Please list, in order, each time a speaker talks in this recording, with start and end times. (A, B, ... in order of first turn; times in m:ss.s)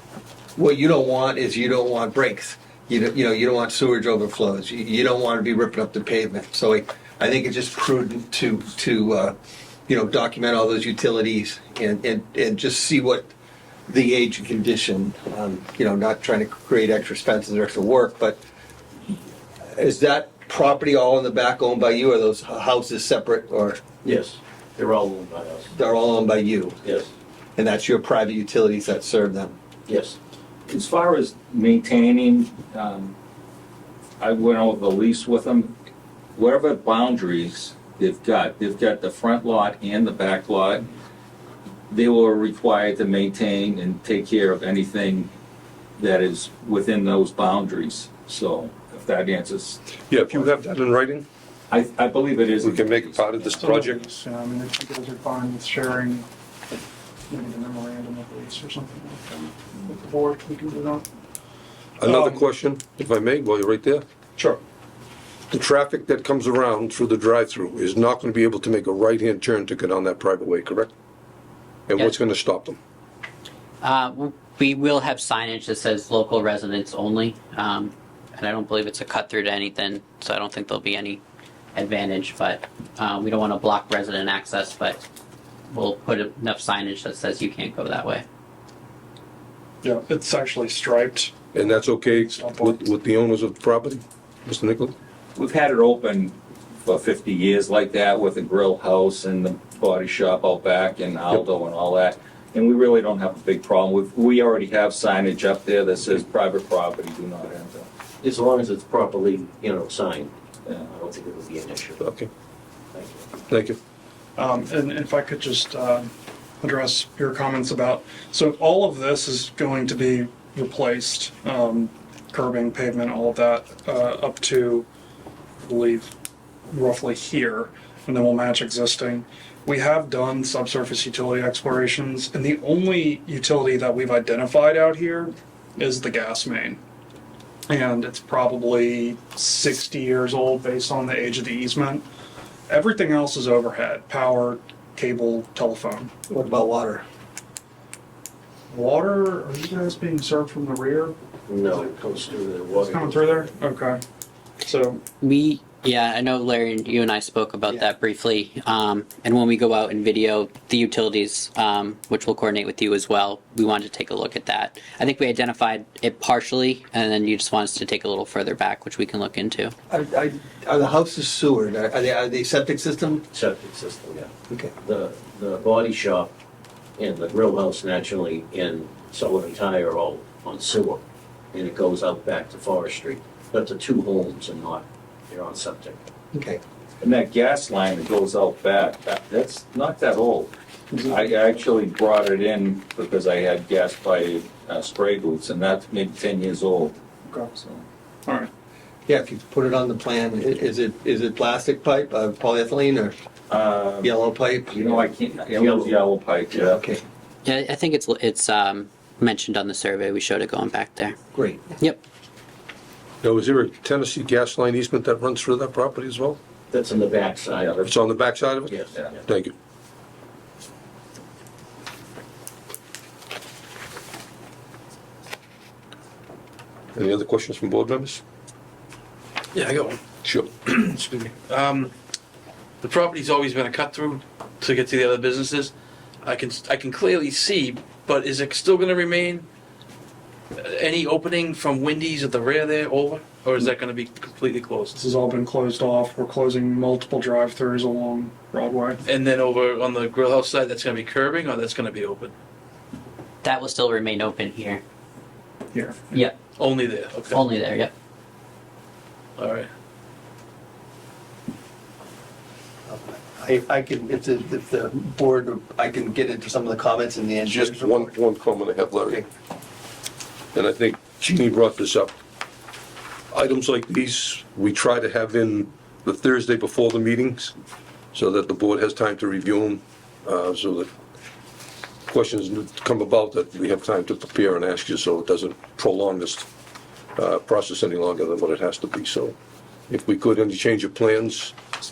0:00.6-0:09.3 A
0:09.9-0:13.3 A
0:13.9-0:18.4 A
0:19.7-0:23.9 A
0:24.0-0:25.7 B
0:25.7-0:26.8 A
0:26.8-0:27.1 B
0:27.6-0:29.6 A
0:29.8-0:30.2 B
0:30.7-0:33.1 C
0:34.2-0:35.7 C
0:36.4-0:40.9 C
0:41.9-0:45.3 C
0:46.0-0:49.8 C
0:50.1-0:51.3 D
0:51.7-0:53.5 C
0:52.6-0:54.0 D
0:53.6-0:56.3 E
0:57.3-1:01.0 E
1:02.0-1:04.0 D
1:02.0-1:02.4 E
1:05.5-1:10.9 D
1:11.9-1:12.8 D
1:13.8-1:21.2 F
1:21.8-1:25.0 F
1:25.7-1:28.2 F
1:29.8-1:32.8 E
1:31.5-1:34.9 D
1:35.4-1:47.9 C
1:48.2-1:52.0 B
1:50.6-1:50.9 C
1:52.0-1:52.3 D
1:52.9-1:53.2 B
1:53.5-1:53.8 D
1:54.4-2:04.9 E
2:05.6-2:06.1 E
2:06.7-2:16.8 E
2:17.7-2:22.1 E
2:22.7-2:26.1 E
2:26.3-2:27.0 A
2:28.7-2:31.2 E
2:31.5-2:33.5 B
2:32.7-2:34.0 E
2:34.6-2:35.0 E
2:35.2-2:49.7 F
2:49.9-2:53.2 A
2:53.3-2:56.3 B
2:57.0-3:06.0 B
3:06.3-3:06.6 A
3:07.0-3:10.5 C
3:10.9-3:11.2 E
3:11.0-3:17.0 C
3:17.3-3:17.6 E
3:19.1-3:23.1 A
3:23.5-3:24.1 C
3:24.0-3:25.0 A
3:24.7-3:26.8 C
3:26.5-3:27.0 A
3:27.4-3:31.2 F
3:31.3-3:31.7 A
3:33.2-3:36.4 D
3:36.7-3:37.9 B
3:37.8-3:39.5 D
3:38.7-3:39.0 B
3:46.9-3:48.2 D
3:49.5-3:50.0 G
3:50.2-3:50.6 D
3:50.8-3:51.9 G
3:52.8-3:55.7 G
3:56.2-3:59.4 G
4:00.6-4:04.9 G
4:04.9-4:09.0 E
4:09.1-4:12.3 G
4:13.4-4:14.8 F
4:15.7-4:16.2 E
4:16.6-4:17.3 G
4:17.3-4:17.9 F
4:19.4-4:19.7 G
4:22.9-4:28.1 A
4:27.4-4:29.2 D
4:30.5-4:32.1 D
4:33.3-4:37.5 D
4:38.1-4:40.9 D
4:42.1-4:46.4 D
4:47.2-4:49.3 D
4:49.9-4:51.5 D